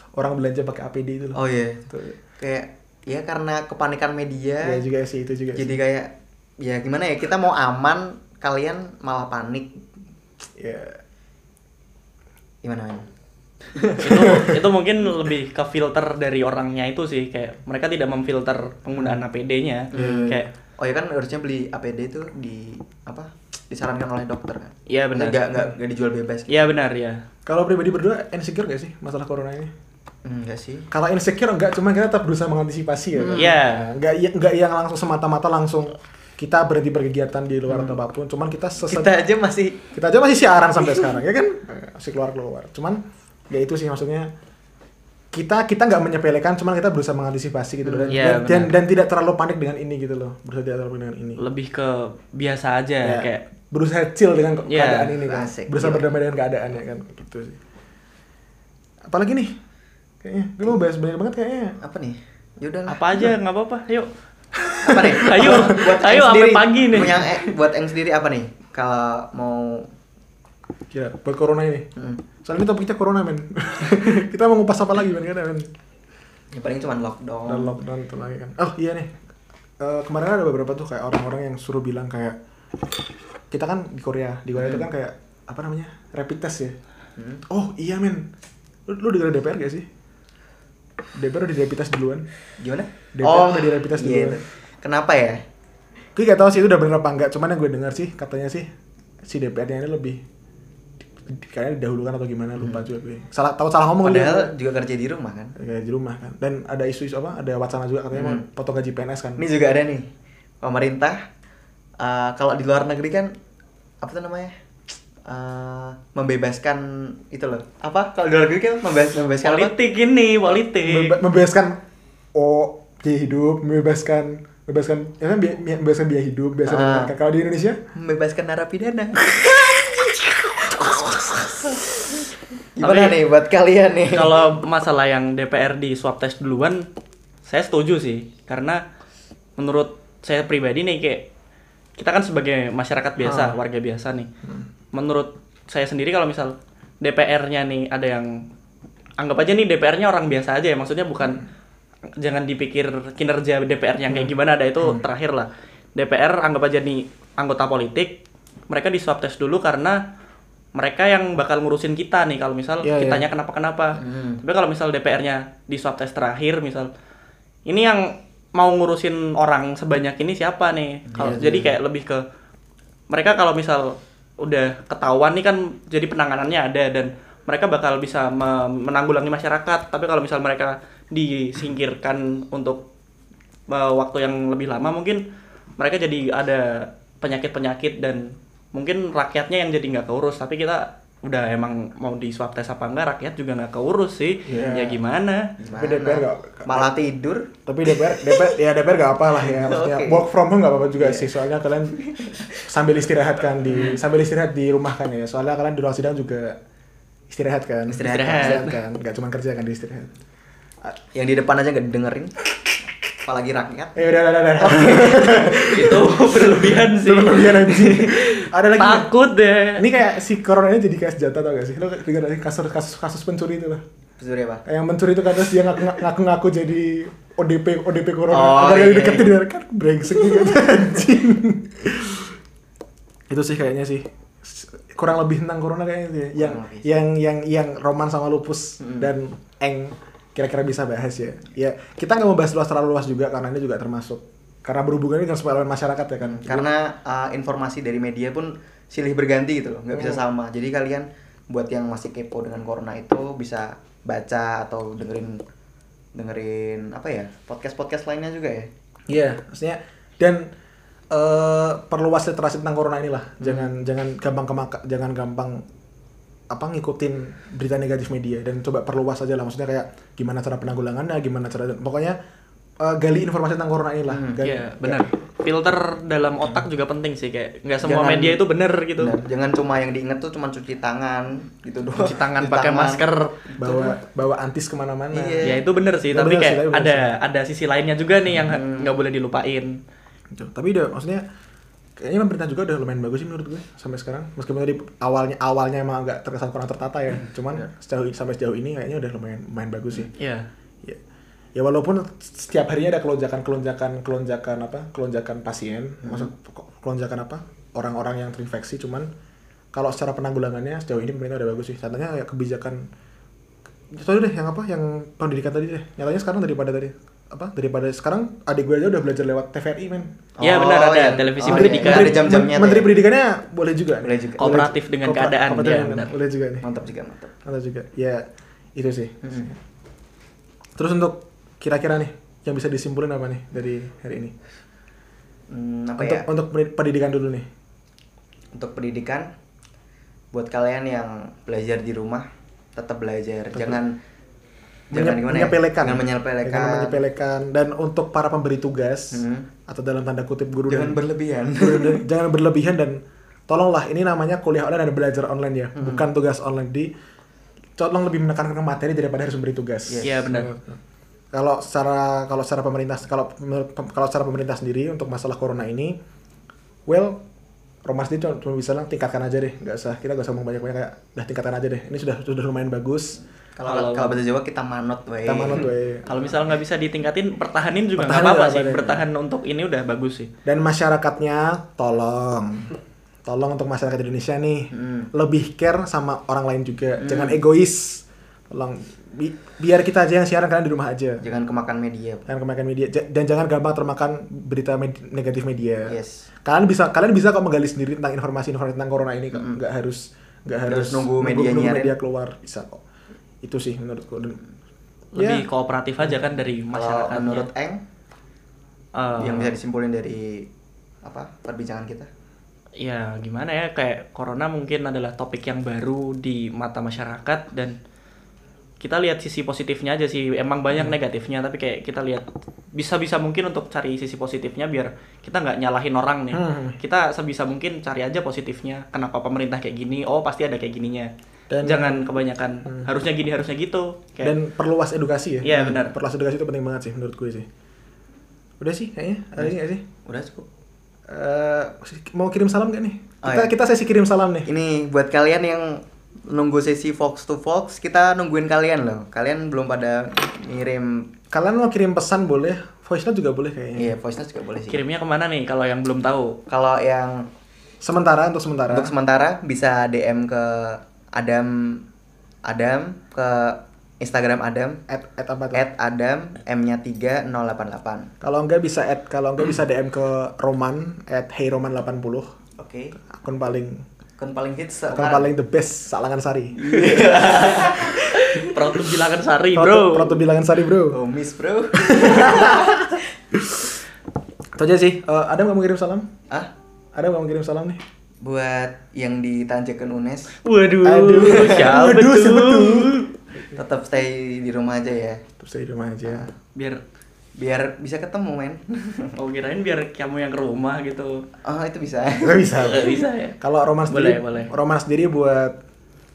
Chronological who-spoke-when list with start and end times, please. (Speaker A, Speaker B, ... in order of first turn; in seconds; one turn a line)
Speaker A: 0.1-2.1
Speaker B: 1.3-4.8
Speaker A: 4.6-5.7
Speaker B: 5.5-9.8
Speaker A: 10.6-11.0
Speaker B: 12.6-13.1
Speaker B: 13.7-14.5
Speaker C: 14.0-20.5
Speaker A: 14.1-14.6
Speaker B: 19.9-26.7
Speaker A: 19.9-20.5
Speaker C: 24.9-25.6
Speaker C: 26.5-27.2
Speaker A: 27.4-29.7
Speaker B: 30.2-30.9
Speaker A: 30.9-39.1
Speaker B: 33.1-33.6
Speaker C: 33.3-33.9
Speaker B: 37.7-38.0
Speaker B: 38.9-39.9
Speaker A: 39.9-44.3
Speaker A: 45.3-51.4
Speaker B: 47.8-48.2
Speaker C: 48.1-48.8
Speaker C: 51.4-53.4
Speaker A: 53.0-57.6
Speaker C: 54.7-55.1
Speaker B: 55.2-56.1
Speaker A: 59.1-59.5
Speaker A: 60.2-61.8
Speaker B: 61.8-63.0
Speaker C: 62.9-64.1
Speaker A: 64.6-65.8
Speaker B: 64.8-69.9
Speaker C: 65.0-67.3
Speaker A: 70.9-71.9
Speaker B: 72.0-72.2
Speaker A: 72.4-75.7
Speaker B: 76.5-77.8
Speaker A: 77.5-79.1
Speaker A: 79.8-82.4
Speaker A: 83.5-86.8
Speaker B: 84.5-84.8
Speaker B: 87.2-87.4
Speaker A: 87.5-88.3
Speaker A: 88.9-89.8
Speaker A: 91.2-92.3
Speaker B: 92.6-95.4
Speaker A: 93.1-94.4
Speaker A: 96.1-98.7
Speaker A: 99.2-100.2
Speaker A: 101.2-104.5
Speaker B: 104.0-105.5
Speaker A: 105.5-109.4
Speaker B: 108.1-108.5
Speaker B: 109.4-110.1
Speaker B: 110.6-111.2
Speaker B: 112.0-113.3
Speaker B: 114.0-114.5
Speaker B: 115.2-119.7
Speaker C: 119.4-121.2
Speaker A: 120.8-121.8
Speaker A: 122.3-127.8
Speaker B: 126.7-127.1
Speaker B: 127.9-129.3
Speaker A: 129.3-130.9
Speaker B: 132.8-134.4
Speaker C: 132.8-133.2
Speaker C: 134.1-136.9
Speaker C: 137.4-138.8
Speaker C: 139.6-141.2
Speaker C: 142.0-144.3
Speaker A: 143.2-143.6
Speaker C: 144.9-148.4
Speaker C: 149.2-151.4
Speaker C: 152.2-158.2
Speaker A: 154.1-155.0
Speaker C: 158.7-160.0
Speaker C: 160.7-166.9
Speaker A: 162.8-163.2
Speaker B: 164.0-164.4
Speaker C: 167.7-172.2
Speaker B: 171.1-171.7
Speaker C: 173.1-182.8
Speaker C: 183.7-185.2
Speaker C: 185.8-195.5
Speaker A: 194.4-195.0
Speaker B: 195.6-198.5
Speaker A: 195.8-196.9
Speaker A: 197.7-202.0
Speaker B: 199.3-200.3
Speaker B: 201.0-201.3
Speaker B: 202.0-202.6
Speaker A: 202.6-206.6
Speaker B: 203.7-204.0
Speaker A: 207.3-210.1
Speaker B: 207.9-208.7
Speaker C: 208.0-208.7
Speaker B: 211.1-212.3
Speaker B: 213.2-214.0
Speaker A: 213.9-219.1
Speaker B: 214.6-215.2
Speaker C: 215.3-219.8
Speaker A: 219.8-223.8
Speaker B: 224.2-224.6
Speaker A: 224.6-232.3
Speaker B: 228.3-229.3
Speaker A: 233.3-246.7
Speaker B: 236.3-236.9
Speaker B: 238.8-239.1
Speaker B: 246.2-255.4
Speaker A: 249.9-250.2
Speaker B: 256.1-258.7
Speaker A: 259.1-260.5
Speaker A: 261.1-265.6
Speaker B: 263.4-263.7
Speaker A: 266.5-272.2
Speaker A: 272.8-275.1
Speaker B: 274.1-274.4
Speaker C: 274.4-279.1
Speaker B: 277.8-278.4
Speaker B: 279.0-283.9
Speaker C: 281.9-283.4
Speaker A: 283.6-285.5
Speaker B: 285.1-285.6
Speaker C: 285.4-289.8
Speaker A: 286.1-287.1
Speaker B: 288.4-289.0
Speaker A: 290.3-291.2
Speaker A: 292.0-300.1
Speaker C: 300.2-300.5
Speaker A: 301.5-309.1
Speaker B: 306.0-306.3
Speaker A: 309.7-312.9
Speaker A: 313.9-320.1
Speaker B: 320.4-322.9
Speaker C: 320.4-322.2
Speaker A: 321.4-326.6
Speaker B: 324.0-324.6
Speaker C: 324.4-326.1
Speaker B: 326.6-327.3
Speaker A: 327.4-329.5
Speaker B: 329.2-329.5
Speaker A: 330.8-334.3
Speaker B: 335.5-336.3
Speaker A: 336.0-337.5
Speaker B: 338.5-339.3
Speaker B: 340.3-343.9
Speaker A: 343.5-343.8
Speaker B: 344.9-347.0
Speaker A: 344.9-351.0
Speaker B: 349.1-349.5
Speaker B: 350.7-352.0
Speaker A: 351.6-356.9
Speaker B: 355.7-356.0
Speaker A: 357.8-360.8
Speaker B: 359.9-360.3
Speaker C: 360.0-360.5
Speaker A: 361.3-366.0
Speaker A: 366.9-367.2
Speaker A: 367.9-373.2
Speaker B: 373.6-375.7
Speaker C: 373.6-374.2
Speaker A: 375.2-376.1
Speaker C: 376.1-380.3
Speaker A: 378.0-379.0
Speaker A: 380.4-382.7
Speaker A: 383.2-391.2
Speaker B: 384.7-385.1
Speaker B: 387.0-387.4
Speaker B: 391.2-392.3
Speaker A: 392.3-402.8
Speaker B: 395.9-396.2
Speaker B: 399.3-399.6
Speaker B: 400.7-401.9
Speaker A: 403.4-404.4
Speaker A: 405.1-405.4
Speaker C: 405.1-407.5
Speaker B: 406.7-407.8
Speaker C: 408.9-409.5
Speaker B: 409.2-410.5
Speaker B: 411.0-412.1
Speaker C: 412.8-417.8
Speaker C: 418.8-422.2
Speaker A: 420.7-421.0
Speaker C: 422.7-431.1
Speaker A: 426.3-426.8
Speaker A: 431.5-432.1
Speaker C: 431.6-434.3
Speaker A: 432.6-432.9
Speaker A: 434.2-437.5
Speaker C: 435.4-435.9
Speaker A: 438.6-439.8
Speaker B: 440.0-440.5
Speaker A: 441.1-444.5
Speaker B: 443.2-443.5
Speaker B: 444.4-451.1
Speaker A: 451.3-453.9
Speaker B: 453.8-454.8
Speaker C: 454.7-456.4
Speaker B: 456.5-457.3
Speaker A: 457.8-458.9
Speaker B: 458.7-461.8
Speaker B: 462.4-464.8
Speaker A: 464.9-465.6
Speaker B: 465.5-468.1
Speaker A: 468.2-472.3
Speaker B: 472.6-473.0
Speaker A: 473.0-473.8
Speaker B: 474.2-475.3
Speaker A: 474.9-476.6
Speaker B: 476.6-478.8
Speaker C: 476.8-480.2
Speaker A: 479.5-481.0
Speaker B: 480.9-483.0
Speaker A: 481.8-483.8
Speaker A: 484.6-486.1
Speaker A: 486.9-487.8
Speaker B: 488.2-490.4
Speaker C: 490.4-493.1
Speaker A: 490.8-492.9
Speaker B: 491.2-491.7
Speaker B: 493.5-495.2
Speaker A: 495.4-496.3
Speaker C: 496.5-496.8
Speaker B: 497.4-499.1
Speaker C: 499.2-501.2
Speaker B: 501.4-502.9
Speaker A: 502.2-505.6
Speaker C: 502.6-503.4
Speaker C: 503.9-504.5